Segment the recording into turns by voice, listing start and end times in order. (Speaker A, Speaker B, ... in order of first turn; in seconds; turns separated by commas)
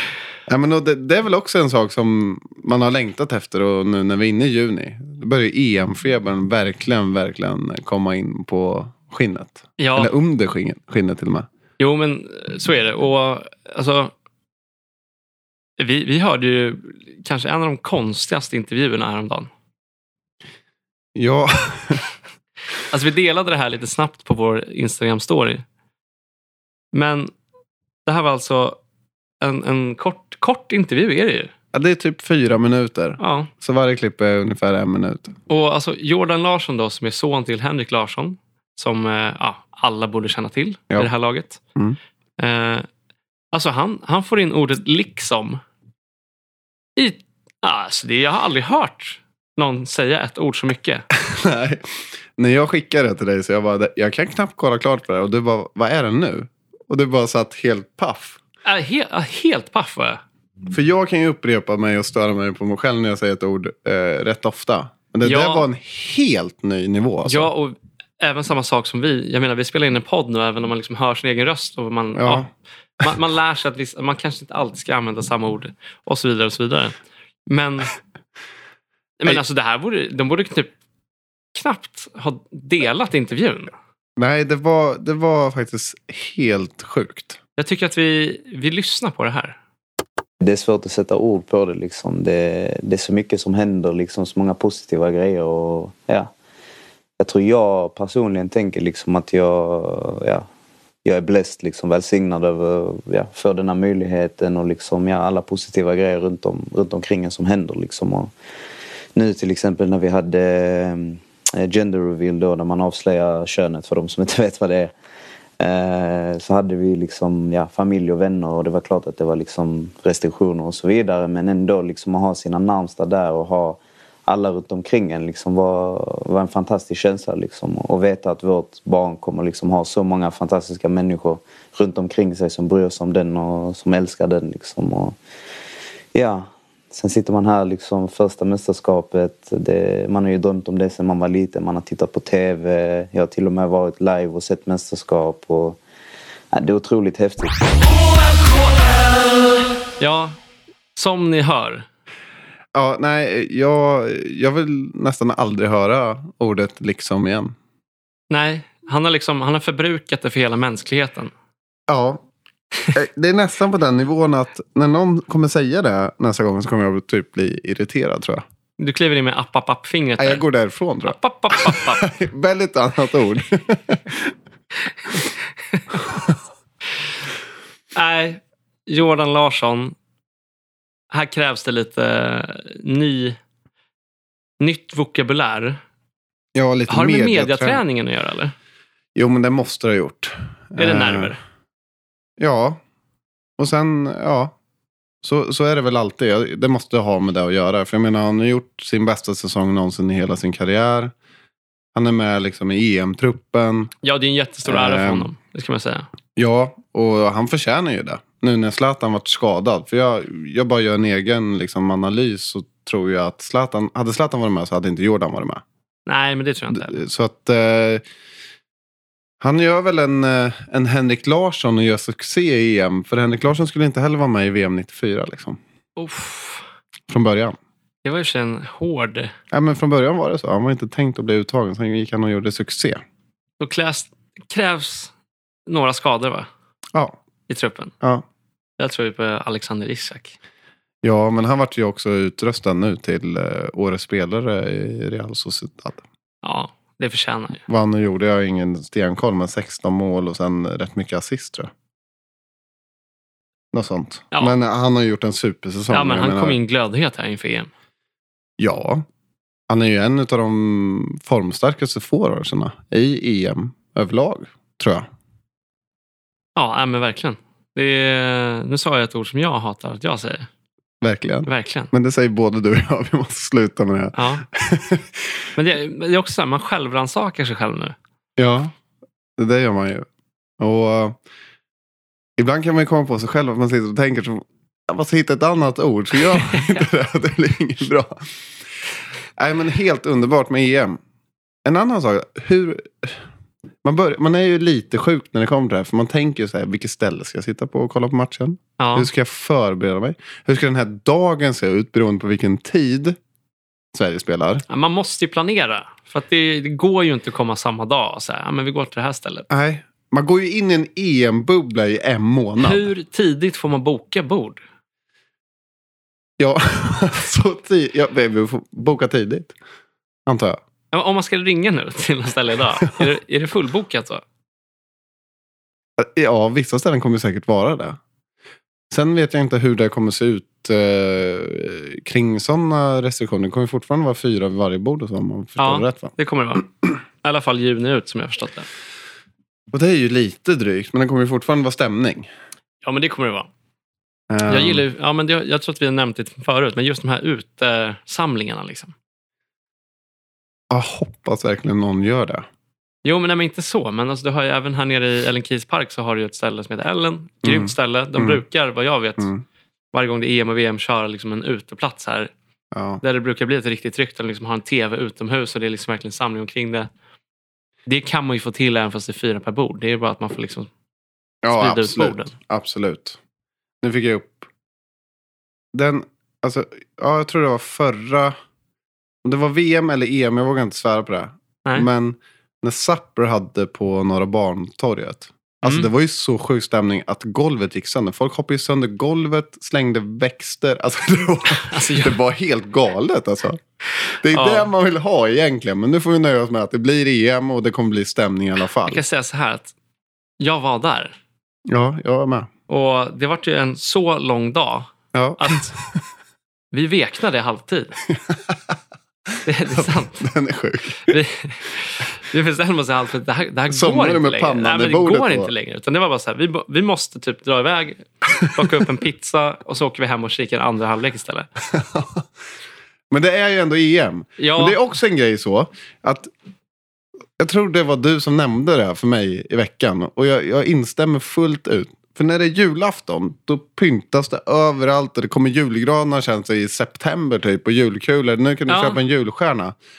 Speaker A: 0.5-11.5, Speaker B: 9.8-10.1, Speaker B: 11.8-14.1, Speaker B: 15.8-19.5, Speaker A: 21.1-22.1, Speaker B: 22.9-25.6, Speaker B: 26.9-27.3, Speaker B: 28.1-28.8, Speaker B: 29.4-31.5, Speaker A: 31.7-35.4, Speaker B: 33.2-33.5, Speaker B: 35.5-41.6, Speaker B: 42.4-42.9, Speaker B: 43.5-45.6, Speaker B: 47.0-51.0, Speaker A: 51.1-51.9, Speaker A: 52.4-58.4, Speaker B: 58.6-60.2, Speaker A: 60.7-67.5, Speaker B: 65.2-65.7, Speaker B: 67.2-72.5, Speaker A: 72.2-72.5, Speaker B: 73.0-77.0, Speaker B: 77.5-77.9, Speaker B: 79.2-80.7, Speaker B: 81.5-83.7, Speaker A: 84.2-87.4, Speaker B: 87.6-89.5, Speaker C: 90.4-96.3, Speaker C: 97.2-100.5, Speaker C: 101.0-108.3, Speaker C: 109.1-114.9, Speaker C: 115.6-135.2, Speaker C: 136.1-145.8, Speaker C: 146.5-147.6, Speaker B: 150.0-150.4, Speaker B: 150.9-151.8, Speaker A: 152.7-157.5, Speaker B: 158.3-161.3, Speaker A: 161.9-162.2, Speaker A: 162.9-168.4, Speaker B: 168.8-170.4, Speaker A: 170.2-174.3, Speaker B: 171.1-172.0, Speaker B: 175.7-176.0, Speaker B: 177.9-179.9, Speaker B: 181.1-183.4, Speaker B: 184.6-185.8, Speaker A: 186.5-187.8, Speaker B: 186.9-188.5, Speaker A: 189.1-191.3, Speaker B: 190.8-191.4, Speaker A: 192.4-192.8, Speaker A: 193.6-194.5, Speaker A: 195.2-201.1, Speaker A: 201.9-203.9, Speaker B: 204.0-206.1, Speaker A: 204.7-205.3, Speaker A: 206.3-215.6, Speaker B: 216.1-217.0, Speaker A: 216.7-218.0, Speaker A: 219.4-225.6, Speaker B: 226.0-226.7, Speaker A: 227.1-227.6, Speaker B: 228.0-229.3, Speaker A: 229.5-233.0, Speaker B: 233.6-235.1, Speaker B: 235.7-236.5, Speaker B: 237.5-237.9, Speaker B: 238.8-240.3, Speaker A: 241.0-246.0, Speaker B: 246.4-247.6, Speaker A: 247.7-251.7, Speaker A: 253.7-256.6, Speaker B: 255.9-257.7, Speaker A: 258.6-259.0, Speaker A: 259.7-265.1, Speaker B: 266.6-270.5, Speaker A: 271.0-275.2, Speaker B: 271.4-271.9, Speaker B: 274.1-274.4, Speaker B: 275.6-277.9, Speaker A: 278.4-278.7, Speaker A: 279.4-280.1, Speaker A: 280.6-281.2, Speaker A: 282.4-288.2, Speaker A: 289.4-291.0, Speaker A: 291.6-293.2, Speaker A: 293.8-303.2, Speaker B: 298.8-299.1, Speaker A: 303.9-304.6, Speaker B: 304.7-309.4, Speaker A: 309.5-312.9, Speaker B: 312.6-314.6, Speaker A: 316.4-319.5, Speaker A: 320.3-320.6, Speaker B: 320.9-324.2, Speaker A: 326.0-328.0, Speaker A: 328.9-336.1, Speaker B: 335.6-336.7, Speaker B: 337.2-338.7, Speaker A: 339.7-342.3, Speaker B: 342.8-343.5, Speaker A: 344.3-344.8, Speaker B: 344.5-348.9, Speaker A: 350.7-352.4, Speaker B: 353.0-359.3, Speaker A: 357.4-358.4, Speaker A: 359.2-359.4, Speaker B: 359.9-362.3, Speaker A: 362.7-363.0, Speaker B: 363.0-366.9, Speaker B: 367.9-370.7, Speaker A: 371.4-373.2, Speaker B: 371.5-372.3, Speaker A: 373.8-374.4, Speaker A: 375.7-378.3, Speaker A: 379.2-393.6, Speaker B: 385.6-385.9, Speaker B: 391.6-392.2, Speaker A: 394.1-399.0, Speaker B: 394.3-394.7, Speaker B: 398.8-399.7, Speaker B: 400.4-401.1, Speaker A: 401.7-402.5, Speaker B: 402.7-405.7, Speaker A: 405.1-406.0, Speaker B: 406.7-408.0, Speaker A: 408.1-408.7, Speaker B: 409.4-410.2, Speaker A: 409.7-411.2, Speaker B: 411.1-421.5, Speaker A: 413.7-415.5, Speaker A: 421.7-422.2, Speaker A: 423.1-426.3, Speaker B: 424.4-424.8, Speaker A: 427.4-439.7, Speaker B: 438.7-439.0